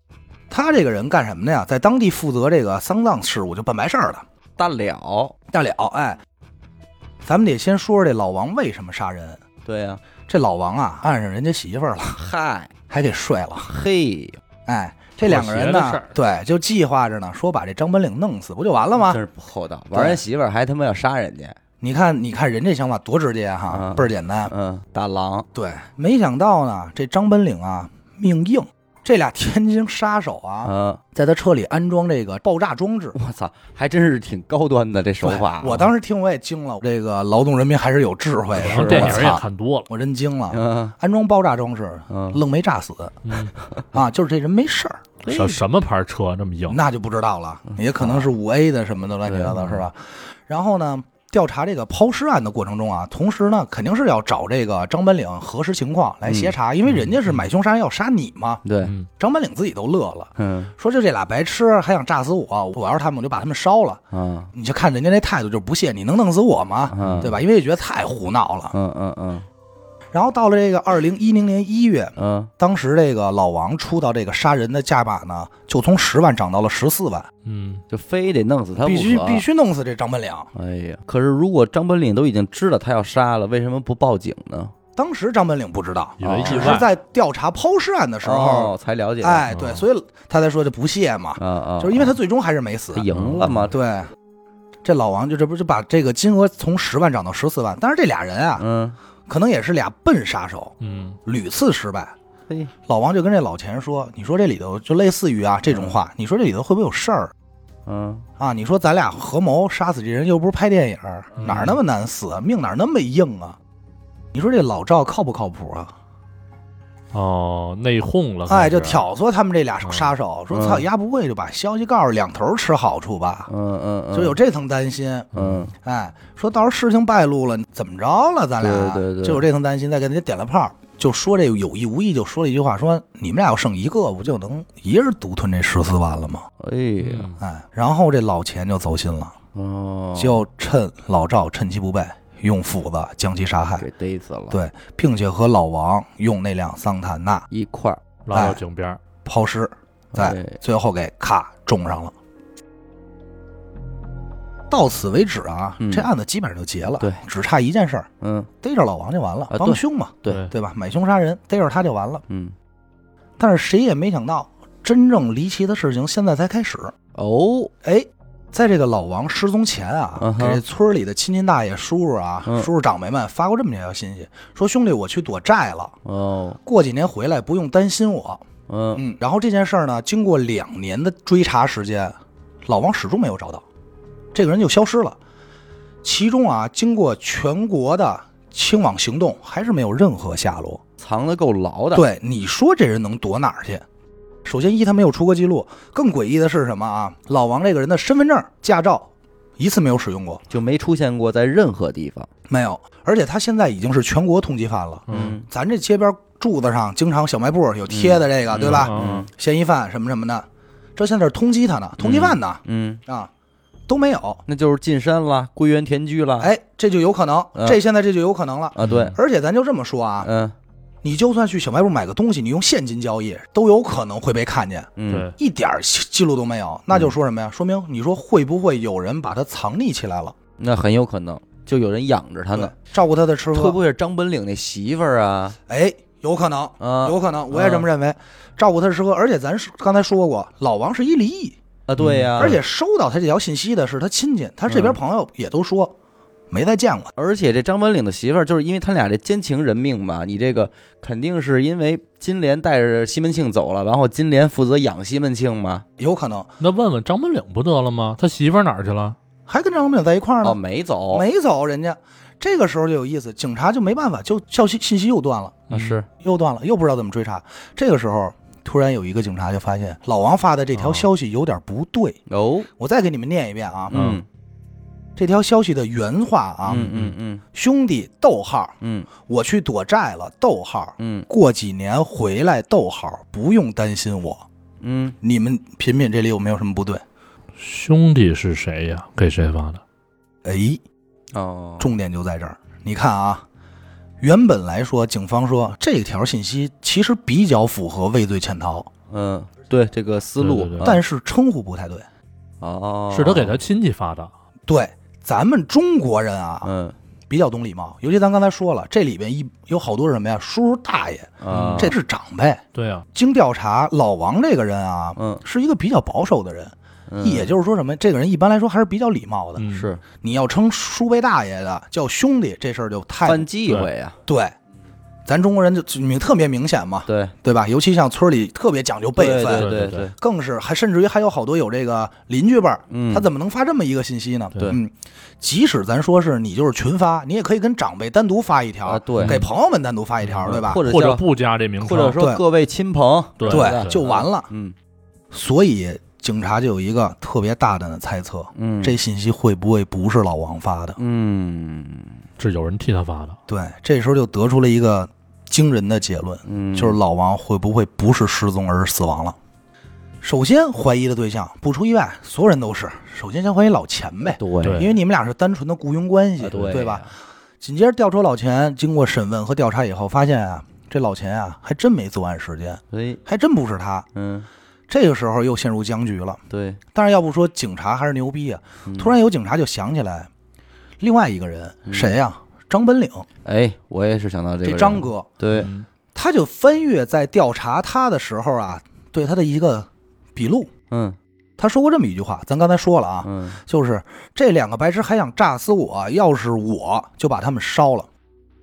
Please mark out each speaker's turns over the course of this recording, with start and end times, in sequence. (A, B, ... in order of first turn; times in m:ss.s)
0:00.5-0:04.2 A
0:04.6-0:05.3 B
0:05.5-0:06.2 A
0:07.2-0:09.4 A
0:09.6-0:10.0 B
0:10.3-0:12.2 A
0:12.1-0:12.7 B
0:12.9-0:13.7 A
0:13.7-0:14.4 B
0:14.7-0:19.2 A
0:15.2-0:16.2 C
0:18.9-0:21.6 B
0:19.9-0:20.2 A
0:21.8-0:24.5 A
0:23.7-0:25.5 B
0:25.5-0:33.2 A
0:30.6-0:31.0 B
0:33.1-0:35.9 B
0:35.2-0:43.2 A
0:38.5-0:39.4 B
0:38.6-0:39.9 C
0:40.5-0:40.9 B
0:42.1-0:42.4 B
0:43.2-0:43.5 C
0:43.9-0:45.1 A
0:45.2-0:45.6 B
0:45.3-0:46.8 C
0:46.7-0:58.6 A
0:47.9-0:48.3 B
0:49.2-0:49.8 B
0:56.2-0:56.5 B
0:56.9-0:57.4 C
0:58.6-0:58.9 B
0:58.8-0:59.1 C
0:59.2-1:04.0 A
1:00.4-1:00.7 B
1:04.1-1:04.5 B
1:04.5-1:08.7 A
1:06.9-1:07.4 B
1:07.0-1:07.3 C
1:08.7-1:09.5 B
1:10.1-1:17.3 A
1:12.2-1:12.5 B
1:17.4-1:17.8 C
1:17.9-1:19.4 B
1:18.8-1:20.5 A
1:20.5-1:24.7 B
1:25.0-1:33.1 A
1:26.2-1:26.9 C
1:26.2-1:26.9 B
1:28.2-1:29.5 B
1:29.5-1:29.8 C
1:31.4-1:32.2 B
1:32.9-1:33.8 B
1:33.1-1:33.7 C
1:33.7-1:34.1 A
1:34.8-1:38.6 A
1:38.6-1:39.0 B
1:39.3-1:42.1 A
1:40.8-1:41.2 C
1:42.8-1:47.3 A
1:45.7-1:46.0 B
1:47.8-1:48.3 B
1:48.4-1:53.6 A
1:51.4-1:51.8 C
1:51.4-1:51.8 B
1:54.3-1:55.9 A
1:57.1-1:59.1 C
1:58.5-2:03.5 A
1:59.8-2:00.1 C
2:00.5-2:00.8 B
2:03.5-2:04.4 B
2:04.1-2:05.3 A
2:05.3-2:05.7 B
2:05.3-2:05.6 C
2:05.8-2:16.4 A
2:08.6-2:09.5 B
2:16.6-2:17.4 B
2:17.0-2:17.4 C
2:17.4-2:19.4 A
2:19.5-2:20.4 B
2:20.2-2:23.9 A
2:23.8-2:24.6 B
2:24.5-2:27.4 A
2:27.5-2:28.0 B
2:28.2-2:29.0 C
2:28.3-2:28.6 A
2:29.2-2:32.1 A
2:30.1-2:30.6 B
2:34.7-2:38.1 A
2:35.8-2:36.1 B
2:38.2-2:38.5 B
2:38.6-2:42.2 A
2:39.5-2:40.5 B
2:40.3-2:40.5 C
2:42.3-2:42.5 B
2:43.4-2:46.9 A
2:47.1-2:47.7 B
2:47.8-2:56.0 A
2:50.2-2:50.6 B
2:52.4-2:52.7 B
2:56.0-2:56.6 B
2:56.6-2:58.4 A
2:58.7-2:59.0 B
2:58.9-3:03.6 A
3:04.3-3:05.2 A
3:06.0-3:10.8 A
3:11.0-3:12.0 B
3:11.9-3:13.8 A
3:14.4-3:20.4 A
3:20.5-3:22.3 B
3:22.5-3:33.3 A
3:25.1-3:25.4 C
3:25.1-3:25.5 B
3:27.9-3:29.3 B
3:28.6-3:29.2 C
3:32.0-3:33.0 B
3:33.9-3:34.4 A
3:34.5-3:36.5 B
3:36.4-3:40.3 A
3:37.5-3:37.8 B
3:38.7-3:39.2 B
3:38.8-3:39.1 C
3:40.2-3:40.5 B
3:41.0-3:50.3 A
3:45.0-3:45.3 B
3:45.1-3:45.4 C
3:50.6-3:52.7 B
3:52.5-3:53.8 A
3:53.5-3:55.6 B
3:55.7-4:01.6 A
3:56.8-3:57.9 B
4:01.9-4:02.6 B
4:02.0-4:02.5 C
4:02.4-4:05.9 A
4:04.7-4:05.0 B
4:06.5-4:07.1 A
4:07.2-4:15.8 B
4:16.0-4:16.5 A
4:16.6-4:19.2 C
4:19.5-4:20.6 A
4:20.4-4:21.2 B
4:21.1-4:32.2 A
4:25.7-4:26.0 C
4:25.7-4:26.1 B
4:30.7-4:31.1 C
4:32.3-4:32.7 B
4:32.8-4:34.0 A
4:33.9-4:34.2 B
4:33.9-4:34.2 C
4:35.2-4:36.9 A
4:36.7-4:37.4 B
4:36.7-4:37.2 C
4:37.5-4:44.4 A
4:38.8-4:39.1 B
4:41.0-4:41.3 B
4:44.8-4:45.2 B
4:45.2-4:47.0 A
4:47.6-4:49.8 C
4:50.4-4:50.8 A
4:51.3-4:51.9 B
4:51.8-4:53.4 A
4:54.2-4:58.9 A
4:59.1-5:01.0 B
5:00.4-5:00.9 C
5:00.8-5:02.1 A
5:02.6-5:03.6 B
5:03.1-5:04.3 C
5:04.7-5:06.7 A
5:06.6-5:07.0 B
5:07.3-5:19.6 A
5:11.4-5:11.9 B
5:11.5-5:11.9 C
5:12.7-5:13.1 C
5:15.2-5:15.4 B
5:17.1-5:17.5 B
5:19.6-5:19.9 C
5:19.7-5:20.0 B
5:20.2-5:23.5 A
5:23.2-5:24.2 B
5:24.2-5:24.5 A
5:25.2-5:40.8 A
5:27.0-5:27.3 B
5:29.1-5:30.1 B
5:29.4-5:30.1 C
5:32.9-5:33.3 B
5:38.8-5:39.5 B
5:39.2-5:39.5 C
5:40.2-5:42.2 C
5:40.4-5:41.2 B
5:41.8-5:44.8 B
5:43.4-5:44.0 C
5:43.5-5:44.5 A
5:45.3-5:51.0 A
5:48.6-5:49.0 B
5:51.0-5:52.2 B
5:52.4-5:53.4 C
5:53.5-5:59.4 A
5:56.4-5:57.0 B
6:00.2-6:07.1 A
6:04.2-6:04.9 B
6:04.6-6:04.9 C
6:06.4-6:07.1 B
6:07.6-6:14.1 A
6:12.9-6:13.2 B
6:14.1-6:14.5 B
6:14.9-6:16.4 A
6:16.5-6:16.8 B
6:16.9-6:20.3 A
6:18.8-6:19.2 B
6:21.0-6:23.2 A
6:21.9-6:22.2 B
6:23.4-6:25.7 B
6:24.6-6:25.3 A
6:25.5-6:25.9 C
6:26.1-6:30.7 A
6:30.9-6:31.2 B
6:31.6-6:38.1 A
6:33.2-6:33.6 B